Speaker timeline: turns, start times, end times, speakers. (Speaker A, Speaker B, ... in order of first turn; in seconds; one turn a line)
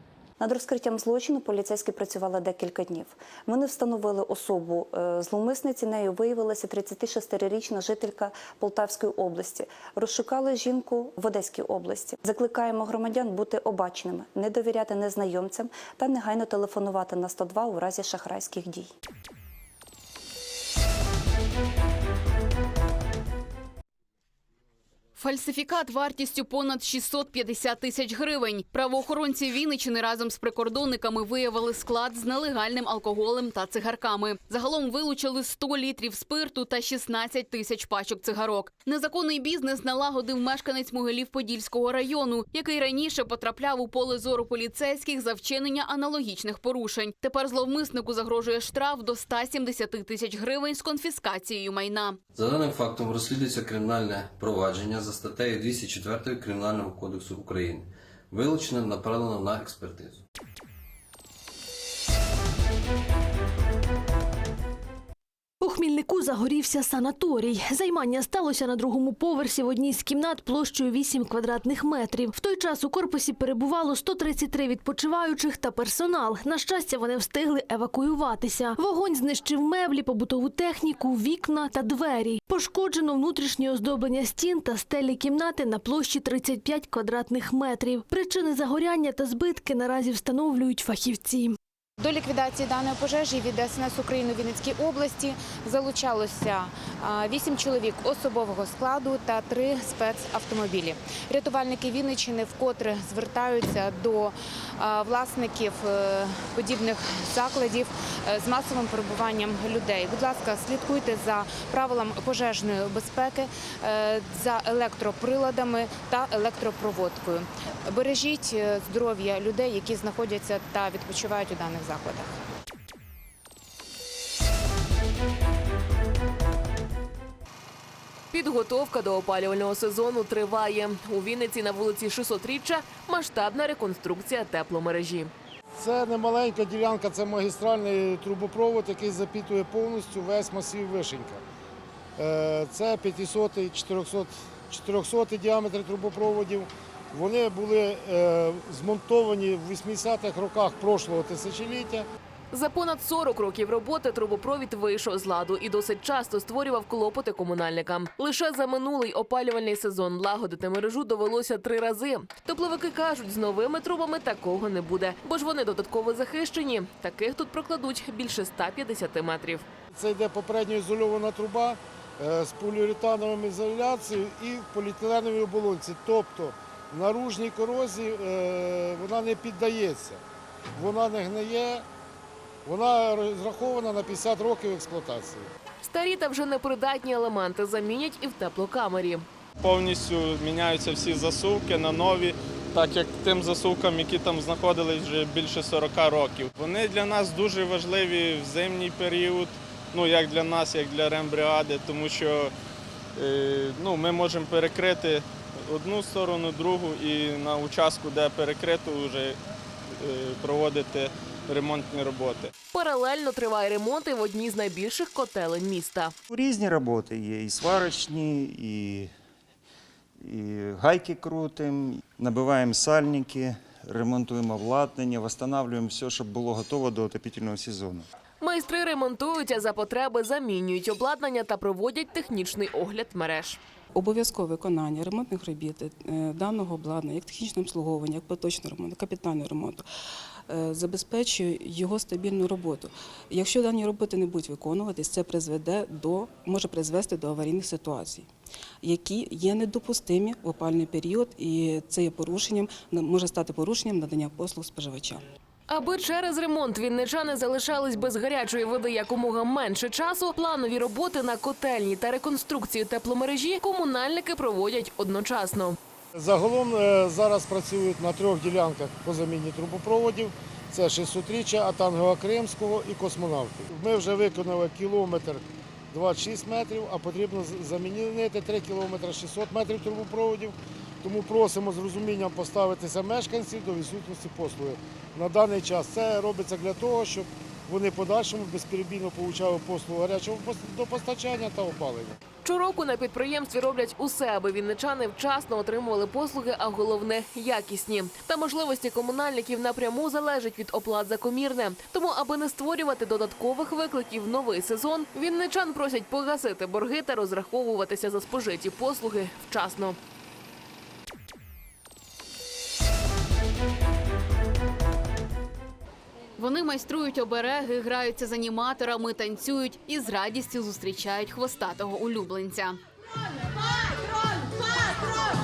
Speaker A: 0.4-18.9
Speaker B: 25.2-52.2
Speaker C: 52.3-60.2
Speaker D: 65.6-91.6
Speaker E: 92.0-122.4
Speaker F: 128.3-135.3
Speaker G: 135.8-141.4
Speaker G: 142.2-152.1
Speaker F: 152.5-169.7
Speaker G: 169.9-180.2
Speaker G: 180.8-181.8
Speaker G: 182.7-185.5
Speaker F: 185.8-189.2
Speaker H: 189.6-202.5
Speaker H: 203.2-209.4
Speaker H: 209.9-212.5
Speaker F: 212.7-216.1
Speaker I: 216.3-219.1
Speaker I: 220.2-228.1
Speaker F: 228.4-233.6
Speaker J: 233.9-239.8
Speaker J: 240.5-248.3
Speaker J: 248.8-255.2
Speaker F: 255.7-265.8
Speaker G: 266.1-292.2
Speaker F: 292.4-310.0
Speaker B: 316.4-322.8